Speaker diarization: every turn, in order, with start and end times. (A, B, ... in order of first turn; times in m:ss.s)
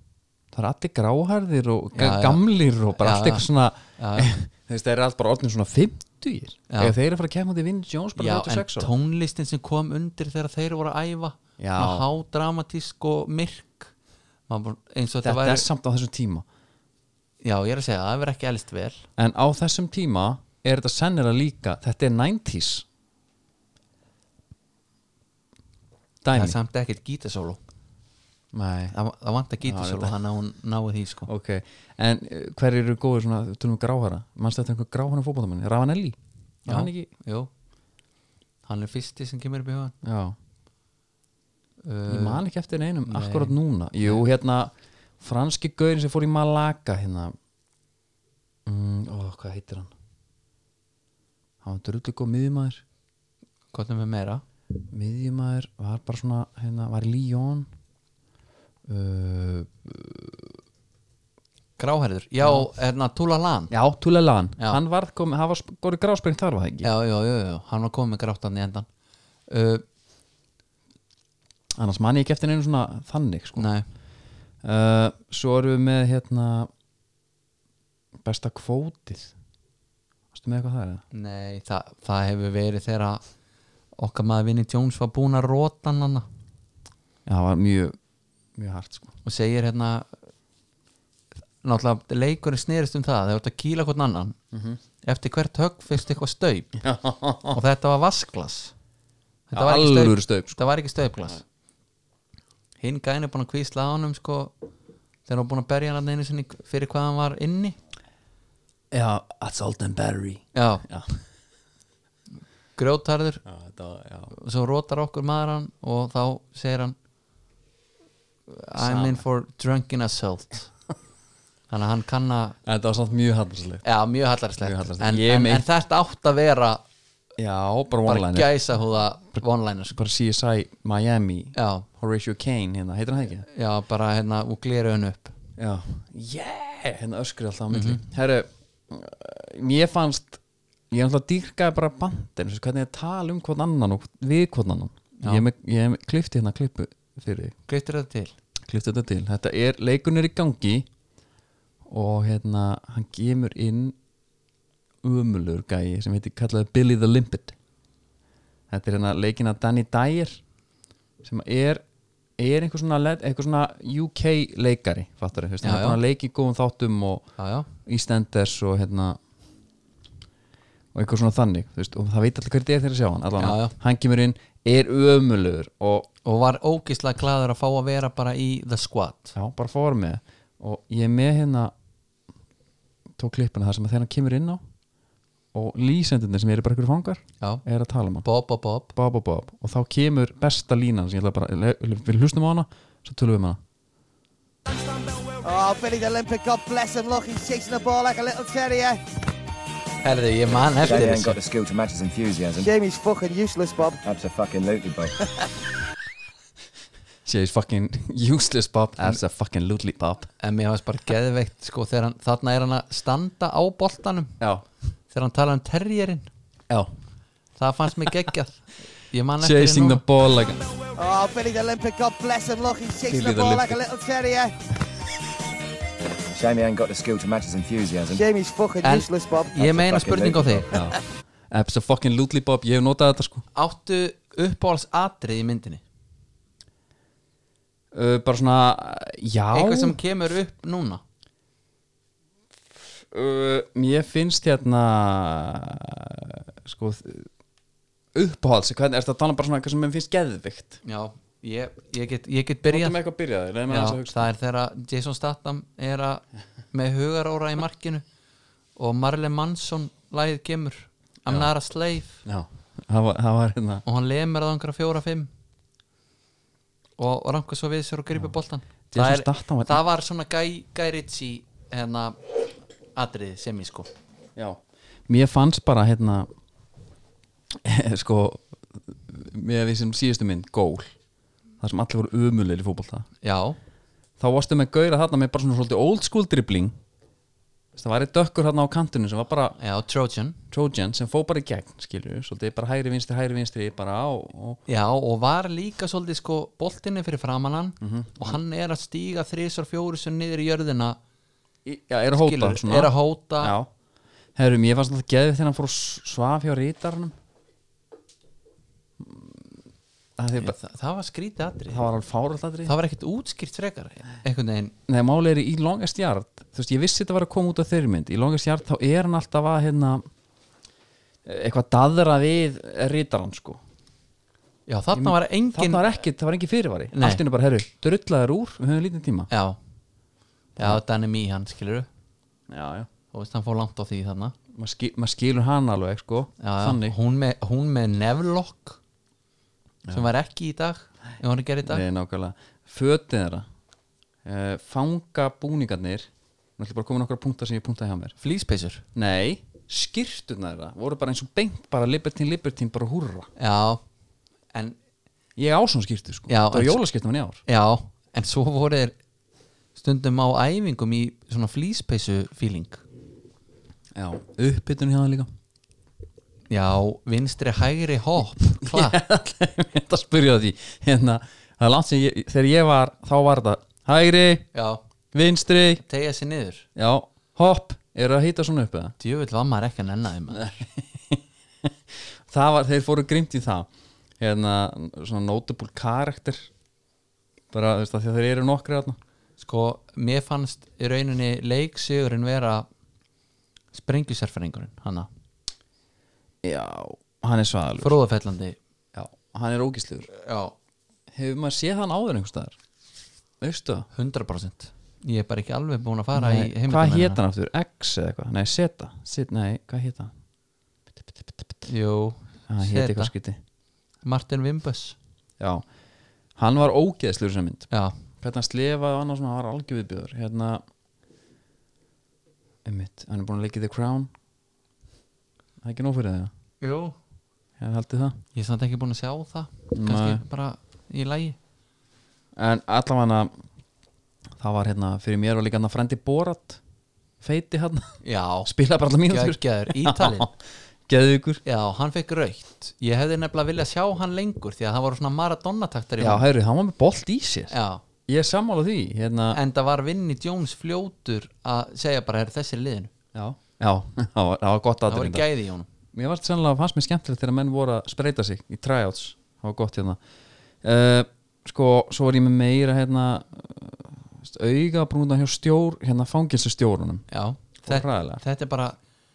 0:00.5-0:08.9 A
0:02.0-0:02.4 B
0:03.0-0:03.5 B
0:04.0-0:04.3 B
0:06.7-0:07.0 B
0:08.2-0:13.9 B
0:11.6-0:12.1 A
0:14.5-0:15.7 B
0:15.2-0:16.4 A
0:17.4-0:19.0 B
0:19.2-0:22.9 A
0:26.2-0:26.6 A
0:26.3-0:27.6 B
0:28.5-0:29.0 A
0:28.9-0:31.3 B
0:29.6-0:30.2 A
0:31.3-0:37.1 A
0:36.7-0:37.5 B
0:38.7-0:39.9 B
0:40.0-0:40.4 A
0:41.8-0:42.4 B
0:42.1-0:47.4 A
0:43.1-0:44.2 B
0:48.7-0:49.9 A
0:51.6-0:52.8 A
0:53.7-0:54.4 B
0:54.9-0:57.7 A
0:58.9-1:00.5 A
1:01.8-1:03.7 B
1:02.4-1:02.7 A
1:03.7-1:06.9 A
1:06.8-1:08.9 B
1:09.5-1:09.8 B
1:11.8-1:13.7 A
1:13.6-1:13.9 B
1:14.6-1:16.7 A
1:18.2-1:19.3 A
1:20.3-1:21.0 A
1:21.1-1:23.2 B
1:24.0-1:26.3 B
1:27.3-1:28.0 A
1:28.6-1:29.1 A
1:29.2-1:30.1 B
1:31.6-1:34.4 B
1:34.5-1:34.8 A
1:35.0-1:36.7 B
1:36.8-1:37.6 A
1:37.5-1:38.7 B
1:39.5-1:41.4 B
1:39.5-1:40.6 A
1:42.8-1:44.5 B
1:45.3-1:47.8 B
1:48.9-1:51.2 A
1:50.6-1:50.8 B
1:52.8-1:53.4 B
1:53.4-1:54.3 A
1:54.3-1:57.0 B
1:58.5-2:00.7 B
1:58.8-1:59.2 A
2:01.7-2:02.6 B
2:02.6-2:03.8 A
2:03.8-2:06.8 B
2:04.6-2:05.7 A
2:07.4-2:08.5 A
2:08.1-2:10.0 B
2:09.9-2:13.5 A
2:11.6-2:11.8 B
2:13.5-2:15.3 B
2:15.6-2:27.6 A
2:17.7-2:18.0 B
2:25.2-2:25.5 B
2:27.7-2:28.3 B
2:28.6-2:30.9 A
2:31.9-2:34.0 A
2:35.0-2:37.6 A
2:38.7-2:40.4 A
2:41.2-2:41.8 A
2:42.4-2:47.3 A
2:45.6-2:46.0 B
2:47.4-2:47.7 B
2:47.8-2:49.2 A
2:50.9-2:56.1 A
2:53.4-2:53.8 B
2:56.2-2:59.4 B
2:59.4-3:01.7 A
3:03.2-3:04.6 A
3:05.5-3:08.3 A
3:08.2-3:08.9 B
3:09.0-3:13.6 A
3:15.4-3:19.0 C
3:20.0-3:21.4 B
3:20.8-3:22.7 D
3:22.6-3:24.0 C
3:24.0-3:25.1 D
3:27.2-3:30.3 A
3:30.4-3:34.4 B
3:34.4-3:34.6 A
3:35.1-3:36.3 B
3:37.6-3:40.0 B
3:39.4-3:40.6 A
3:41.0-3:44.5 C
3:43.1-3:43.8 A
3:46.3-3:48.2 D
3:48.1-3:49.6 C
3:48.8-3:50.7 B
3:49.6-3:50.7 D
3:50.7-3:51.0 A
3:51.5-3:53.5 A
3:53.6-3:55.8 B
3:57.9-4:00.0 A
3:59.5-4:01.0 B
4:02.8-4:07.3 A
4:08.2-4:10.8 A
4:10.8-4:13.0 B
4:12.7-4:14.3 A
4:13.7-4:18.0 B
4:18.8-4:22.2 B
4:22.2-4:23.8 A
4:23.8-4:25.3 B
4:27.0-4:32.2 B
4:28.9-4:29.8 A
4:33.0-4:33.9 B
4:34.4-4:36.3 A
4:37.6-4:40.9 A
4:41.6-4:43.1 A
4:43.2-4:43.6 B
4:44.2-4:46.8 A
4:47.8-4:49.6 A
4:49.6-4:50.4 B
4:50.5-4:54.6 A
4:54.7-5:01.0 B
4:57.8-4:58.4 A
5:01.6-5:03.7 A
5:02.1-5:03.6 B
5:04.4-5:07.2 A
5:09.0-5:09.5 A
5:10.2-5:10.6 A
5:10.4-5:11.8 B
5:11.7-5:12.8 A
5:12.7-5:14.7 B
5:14.9-5:20.1 A
5:21.2-5:23.6 A
5:24.7-5:25.8 B
5:24.9-5:29.3 A
5:26.9-5:27.2 B
5:29.3-5:29.6 B
5:30.6-5:31.9 B
5:32.5-5:32.9 A
5:33.1-5:34.4 B
5:34.5-5:37.0 A
5:36.4-5:38.8 B
5:39.9-5:41.8 B
5:41.6-5:43.5 A
5:44.2-5:48.2 A
5:48.2-5:48.8 B
5:49.0-5:53.3 A
5:53.4-5:53.8 B
5:55.4-5:57.4 A
5:56.3-5:56.8 B
5:57.5-5:59.0 B
5:59.8-6:02.8 B
6:03.9-6:05.3 A
6:06.5-6:09.0 B
6:08.4-6:14.5 A
6:14.5-6:14.8 B
6:15.1-6:15.8 A
6:15.8-6:16.7 B
6:16.8-6:19.0 A
6:19.0-6:20.6 B
6:20.3-6:21.7 A
6:22.3-6:23.7 A
6:24.2-6:26.5 A
6:27.5-6:29.0 A
6:29.4-6:32.7 B
6:33.7-6:35.1 B
6:36.4-6:38.0 A
6:37.8-6:38.6 B
6:38.9-6:40.1 A
6:40.1-6:40.5 B
6:41.1-6:42.6 A
6:43.4-6:43.9 A
6:43.9-6:47.2 B
6:46.2-6:50.1 A
6:51.7-6:53.1 B
6:52.5-6:53.4 A
6:54.0-6:55.0 B
6:55.4-6:55.6 A
6:56.4-6:57.7 A
6:58.2-7:00.6 A
7:02.6-7:04.1 A
7:05.6-7:06.3 A
7:06.6-7:07.0 B
7:07.6-7:08.2 A
7:08.4-7:11.4 B
7:09.7-7:10.2 A
7:12.4-7:13.3 A
7:14.4-7:16.6 A
7:17.2-7:20.4 A
7:18.0-7:18.5 B
7:19.1-7:20.3 B
7:20.9-7:21.4 A
7:21.4-7:26.2 B
7:26.0-7:27.5 A
7:27.5-7:27.8 B
7:28.1-7:29.4 A
7:29.3-7:32.9 B
7:33.2-7:35.3 A
7:34.9-7:35.7 B
7:35.9-7:40.0 A
7:40.6-7:47.0 A
7:47.1-7:48.8 B
7:47.6-7:48.2 A